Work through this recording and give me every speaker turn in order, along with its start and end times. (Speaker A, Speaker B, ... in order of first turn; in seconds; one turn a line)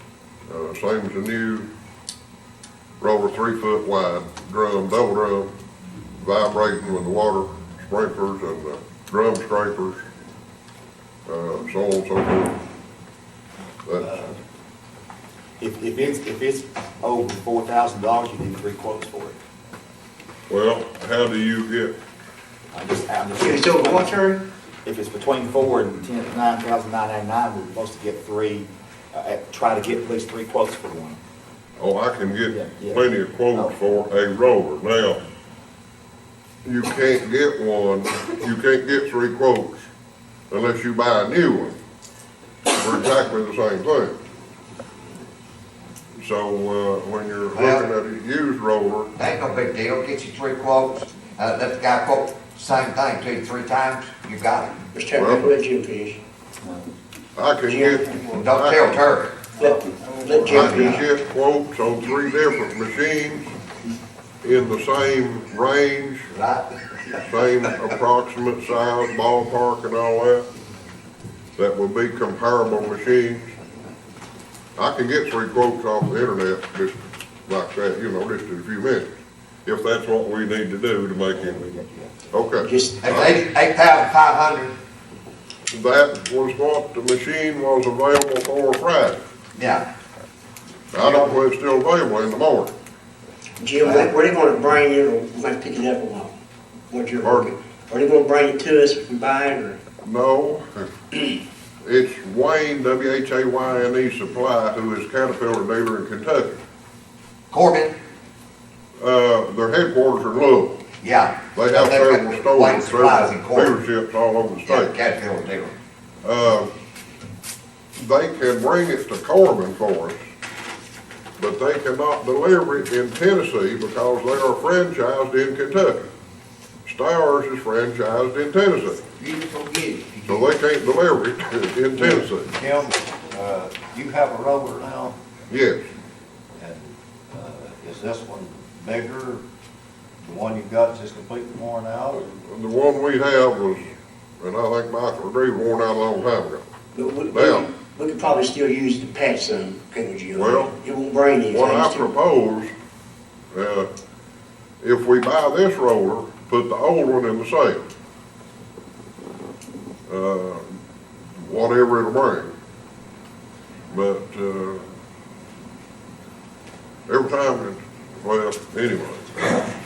Speaker A: 0.5-1.7
Speaker A: 3.0-5.5
Speaker A: 6.2-10.0
Speaker A: 11.3-12.6
Speaker A: 13.9-14.2
Speaker B: 15.6-19.4
Speaker A: 20.5-21.9
Speaker B: 22.7-24.3
Speaker C: 23.4-24.5
Speaker B: 24.9-31.2
Speaker A: 31.8-35.2
Speaker B: 32.5-33.7
Speaker A: 36.6-39.8
Speaker A: 40.5-41.8
Speaker A: 42.8-44.2
Speaker A: 46.2-49.1
Speaker D: 47.5-47.9
Speaker D: 49.2-54.8
Speaker C: 54.9-56.2
Speaker A: 55.2-55.5
Speaker A: 57.4-59.1
Speaker C: 57.6-58.2
Speaker D: 58.3-59.4
Speaker C: 59.6-61.1
Speaker A: 60.4-63.5
Speaker D: 60.5-60.9
Speaker A: 64.4-66.3
Speaker D: 66.3-66.8
Speaker A: 67.2-70.5
Speaker A: 71.6-73.5
Speaker A: 74.8-79.1
Speaker A: 79.7-81.6
Speaker B: 81.3-82.3
Speaker A: 82.3-83.4
Speaker C: 82.6-83.0
Speaker D: 83.0-84.7
Speaker A: 85.7-89.2
Speaker D: 89.5-89.9
Speaker A: 90.9-92.7
Speaker D: 91.0-91.3
Speaker C: 93.6-96.3
Speaker D: 93.8-94.1
Speaker C: 96.9-99.8
Speaker A: 97.2-97.5
Speaker A: 100.0-100.9
Speaker A: 101.8-106.6
Speaker D: 107.5-107.9
Speaker A: 109.0-110.8
Speaker D: 111.0-113.8
Speaker A: 111.5-114.9
Speaker D: 114.7-115.7
Speaker A: 116.2-116.7
Speaker A: 118.0-120.2
Speaker A: 121.4-126.1
Speaker A: 126.8-129.0
Speaker E: 129.2-130.4
Speaker A: 130.3-132.5
Speaker E: 131.9-135.2
Speaker A: 135.5-135.8
Speaker E: 136.6-139.4
Speaker E: 140.2-142.2
Speaker A: 142.1-146.6
Speaker C: 146.9-152.1
Speaker A: 147.3-147.7
Speaker A: 150.3-150.7
Speaker A: 151.5-152.7
Speaker A: 153.5-153.9
Speaker A: 154.8-157.8
Speaker A: 160.1-160.8
Speaker A: 161.4-162.5
Speaker A: 163.9-164.8
Speaker A: 167.1-169.4